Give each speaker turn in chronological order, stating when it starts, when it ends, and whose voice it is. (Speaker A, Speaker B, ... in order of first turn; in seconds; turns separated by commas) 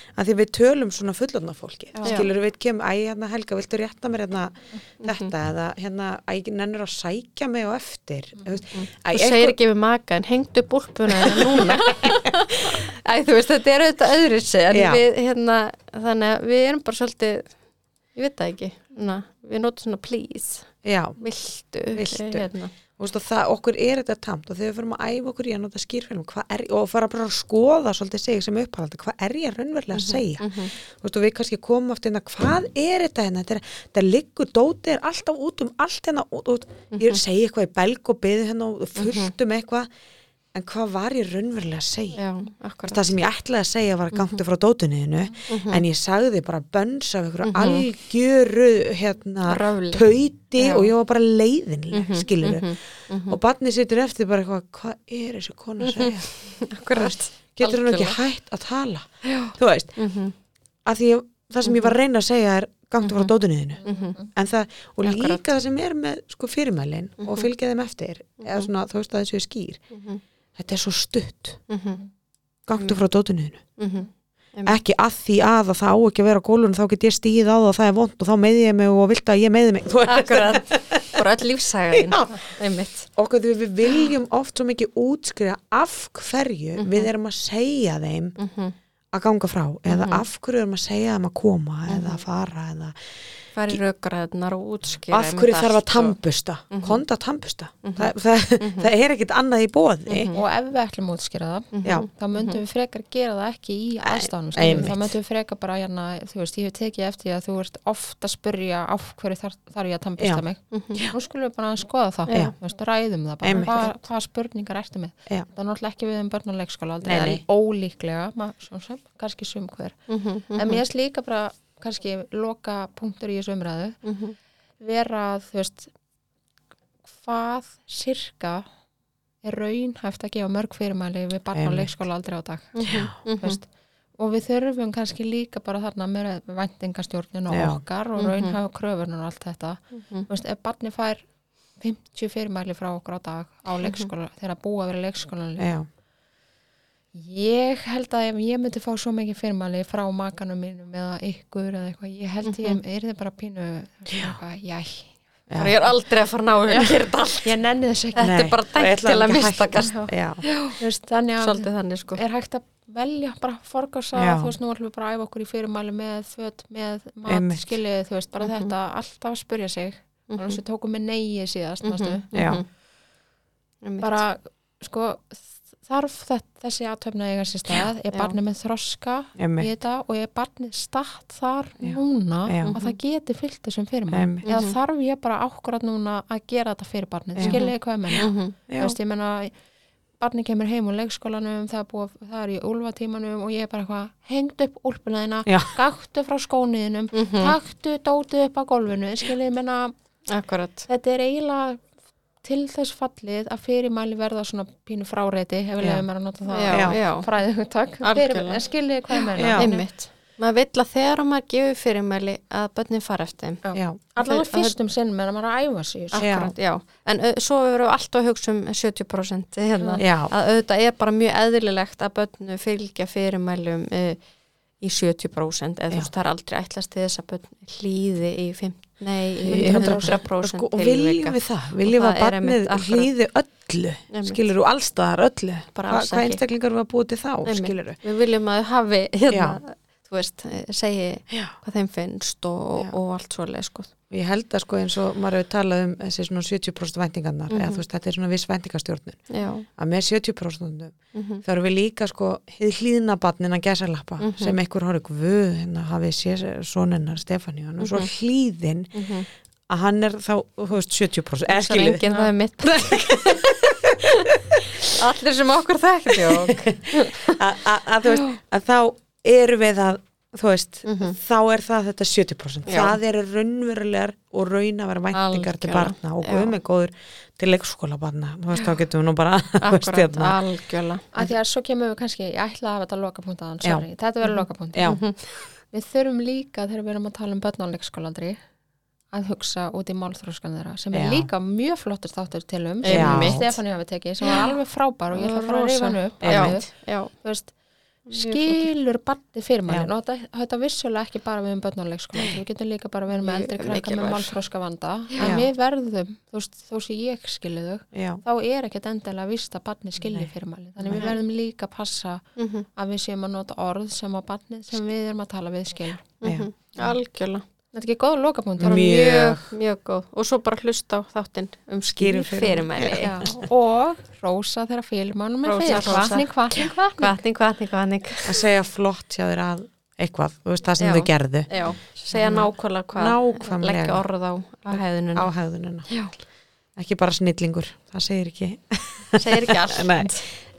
Speaker A: 0.1-9.6, Speaker B: 2.0-2.3, Speaker B: 5.0-5.3, Speaker B: 8.7-17.5, Speaker A: 11.2-12.8, Speaker A: 14.7-15.0, Speaker B: 18.1-22.7, Speaker A: 20.8-21.2, Speaker A: 21.9-39.9, Speaker B: 29.9-30.7, Speaker B: 36.9-37.2, Speaker B: 39.0-39.3, Speaker A: 40.5-42.2, Speaker B: 42.1-43.1, Speaker A: 42.9-56.3, Speaker B: 44.1-44.4, Speaker B: 45.5-45.8, Speaker B: 47.4-47.9, Speaker B: 49.5-50.9, Speaker B: 51.9-53.4, Speaker B: 55.8-58.2, Speaker A: 56.9-60.0, Speaker B: 59.2-60.3, Speaker A: 60.8-69.8, Speaker B: 61.6-62.0, Speaker B: 63.0-63.3, Speaker B: 63.8-64.2, Speaker B: 65.0-65.4, Speaker B: 67.2-67.5, Speaker B: 68.4-68.7, Speaker B: 69.9-70.2, Speaker A: 70.5-71.6, Speaker B: 71.7-72.0, Speaker A: 72.7-73.6, Speaker B: 73.8-74.8, Speaker A: 74.7-81.2, Speaker B: 80.0-83.1, Speaker A: 81.9-82.3, Speaker A: 83.2-88.4, Speaker B: 86.8-87.1, Speaker B: 88.4-88.8, Speaker A: 89.1-93.0, Speaker B: 89.9-90.2, Speaker B: 91.9-92.2, Speaker B: 93.5-96.2, Speaker A: 95.1-100.4, Speaker B: 96.7-97.0, Speaker B: 97.8-98.9, Speaker B: 100.1-100.4, Speaker C: 100.3-120.0, Speaker B: 101.7-102.6, Speaker A: 104.0-105.1, Speaker A: 110.2-111.1, Speaker B: 110.7-111.0, Speaker B: 112.3-112.5, Speaker A: 113.4-113.9, Speaker A: 117.0-117.4, Speaker B: 120.1-120.8, Speaker C: 120.5-124.0, Speaker B: 124.0-124.3, Speaker C: 124.8-125.9, Speaker C: 127.0-128.6, Speaker C: 129.4-141.2, Speaker A: 131.5-131.9, Speaker B: 132.8-133.6, Speaker A: 132.8-133.1, Speaker A: 137.5-137.8, Speaker B: 138.2-138.6, Speaker C: 141.8-145.7, Speaker B: 143.8-144.1, Speaker A: 145.6-145.8, Speaker C: 147.1-155.2, Speaker B: 152.4-152.8, Speaker A: 154.1-154.3, Speaker A: 155.5-155.8, Speaker B: 155.6-157.6, Speaker C: 157.4-158.3, Speaker B: 158.1-160.8, Speaker A: 158.2-160.4, Speaker C: 159.8-160.1, Speaker C: 160.8-172.2, Speaker B: 161.4-162.2, Speaker A: 164.2-164.5, Speaker A: 167.3-167.7, Speaker B: 168.4-168.7, Speaker B: 170.3-170.6, Speaker B: 171.8-172.7, Speaker A: 172.3-172.6, Speaker B: 173.8-174.2, Speaker C: 174.0-189.5, Speaker A: 179.4-179.7, Speaker A: 181.8-182.8, Speaker B: 182.7-183.0, Speaker A: 184.1-184.4, Speaker B: 184.4-184.7, Speaker A: 187.3-188.9, Speaker B: 187.4-188.5, Speaker C: 190.2-199.9, Speaker A: 195.4-195.7, Speaker B: 197.1-197.5, Speaker B: 200.3-200.9, Speaker C: 200.9-201.8, Speaker C: 202.4-209.8, Speaker B: 206.5-207.3, Speaker A: 206.7-207.0, Speaker B: 208.0-213.6, Speaker A: 209.3-209.7, Speaker C: 213.6-216.3, Speaker B: 214.2-214.7, Speaker B: 216.1-224.2, Speaker A: 216.2-216.5, Speaker A: 220.0-220.3, Speaker B: 224.8-233.1, Speaker C: 229.4-230.2, Speaker A: 229.5-238.0, Speaker B: 234.1-234.4, Speaker B: 235.7-236.4, Speaker B: 237.4-243.9, Speaker A: 239.3-239.6, Speaker A: 241.3-241.5, Speaker A: 244.1-259.1, Speaker B: 247.5-247.8, Speaker B: 249.3-249.7, Speaker B: 251.1-251.4, Speaker B: 254.2-254.6, Speaker B: 257.8-258.1, Speaker B: 258.9-259.3, Speaker A: 259.7-262.0, Speaker B: 261.5-267.4, Speaker C: 262.1-262.3, Speaker A: 262.6-265.0, Speaker A: 266.1-280.4, Speaker B: 268.1-268.3, Speaker B: 270.9-271.1, Speaker B: 272.7-273.0, Speaker B: 275.1-276.5, Speaker B: 279.6-281.1, Speaker C: 281.1-284.9, Speaker A: 284.7-285.0, Speaker B: 284.8-285.1, Speaker C: 285.7-288.4, Speaker C: 289.1-297.5, Speaker A: 290.9-291.3, Speaker B: 292.8-293.5, Speaker A: 292.9-293.5, Speaker B: 294.2-294.5, Speaker B: 295.1-297.1, Speaker A: 296.2-296.6, Speaker B: 298.1-298.7, Speaker C: 298.1-312.2, Speaker B: 303.1-304.3, Speaker A: 305.2-305.5, Speaker A: 307.9-308.2, Speaker A: 310.0-310.3, Speaker A: 310.8-311.1, Speaker B: 312.4-312.7, Speaker C: 312.8-316.1, Speaker B: 316.2-317.4, Speaker C: 317.7-318.9, Speaker A: 318.6-319.5, Speaker B: 318.6-323.2, Speaker A: 321.9-323.3, Speaker C: 323.0-327.2, Speaker B: 325.4-326.2, Speaker B: 327.0-328.4, Speaker A: 328.2-331.5, Speaker B: 330.8-335.3, Speaker A: 332.1-334.0, Speaker A: 334.7-335.9, Speaker A: 336.8-340.1, Speaker B: 339.2-340.2